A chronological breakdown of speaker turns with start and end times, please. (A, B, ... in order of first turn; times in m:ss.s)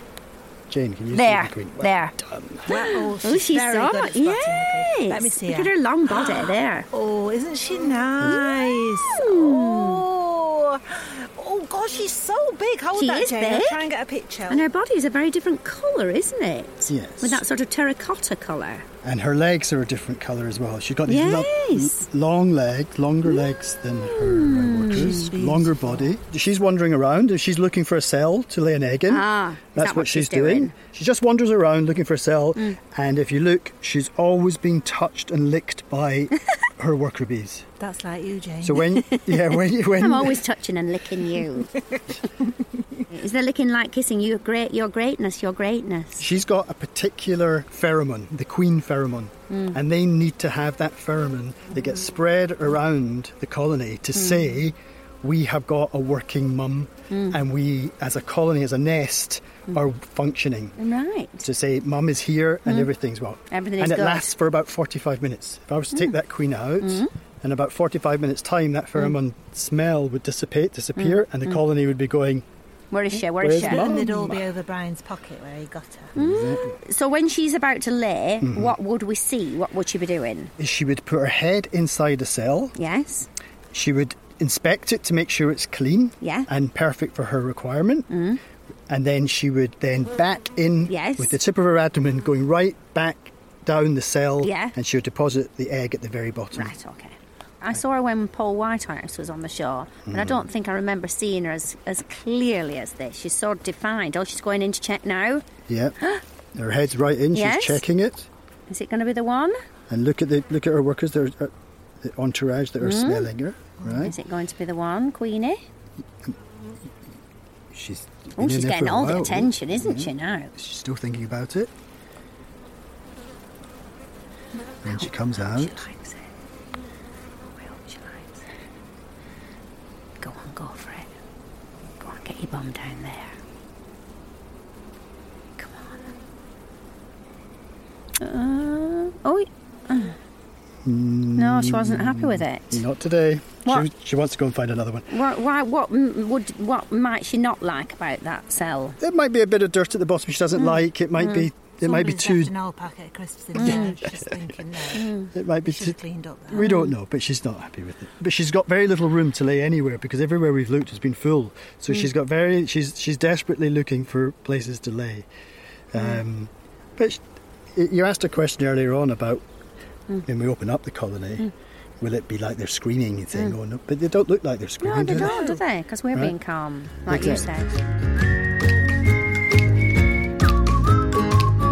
0:00.7-0:02.7 A
0:01.1-0:02.2 B
0:02.7-0:06.9 B
0:02.7-0:14.6 C
0:08.2-0:10.0 B
0:13.0-0:13.8 B
0:14.5-0:18.9 B
0:16.9-0:17.4 A
0:19.0-0:37.7 A
0:21.1-0:22.1 B
0:24.1-0:25.3 B
0:24.9-0:26.1 C
0:29.1-0:30.7 B
0:37.8-0:39.0 C
0:38.6-0:40.4 A
0:39.1-0:41.7 B
0:43.1-0:46.3 B
0:46.2-1:00.8 A
0:49.5-0:49.8 B
0:54.2-0:54.5 B
0:57.1-0:57.4 B
1:00.8-1:01.5 B
1:01.4-1:12.4 A
1:03.5-1:04.3 B
1:06.8-1:07.1 B
1:11.0-1:11.6 B
1:12.9-1:13.9 B
1:13.2-1:14.4 A
1:13.6-1:16.2 C
1:16.2-1:16.8 A
1:16.2-1:20.5 B
1:18.4-1:18.8 A
1:20.6-1:22.7 A
1:22.8-1:23.3 B
1:23.7-1:28.1 A
1:26.2-1:26.5 B
1:28.1-1:28.4 B
1:28.9-1:36.7 A
1:30.9-1:31.4 B
1:34.4-1:34.8 B
1:36.5-1:45.4 B
1:40.1-1:40.4 A
1:45.7-1:46.0 A
1:46.6-1:48.3 A
1:47.3-1:47.8 B
1:48.7-1:49.6 B
1:49.9-1:54.2 A
1:52.8-1:53.3 B
1:53.9-1:55.6 B
1:57.7-2:01.7 A
1:58.4-2:00.5 B
2:04.8-2:05.8 A
2:04.8-2:06.3 B
2:07.6-2:08.4 B
2:10.2-2:11.1 B
2:12.0-2:13.4 B
2:15.6-2:16.1 B
2:18.2-2:20.2 B
2:20.8-2:25.1 A
2:21.4-2:22.8 B
2:25.1-2:29.0 B
2:29.0-2:32.5 A
2:30.6-2:31.5 B
2:31.8-2:35.1 C
2:33.6-2:33.9 B
2:33.6-2:34.4 A
2:35.0-2:35.3 B
2:35.3-2:36.0 A
2:35.6-2:36.7 C
2:36.5-2:45.3 A
2:36.5-2:36.9 B
2:45.9-2:47.2 A
2:47.7-2:49.4 A
2:50.2-2:55.5 A
2:54.8-2:57.7 B
2:55.2-2:55.5 C
2:57.1-2:57.5 A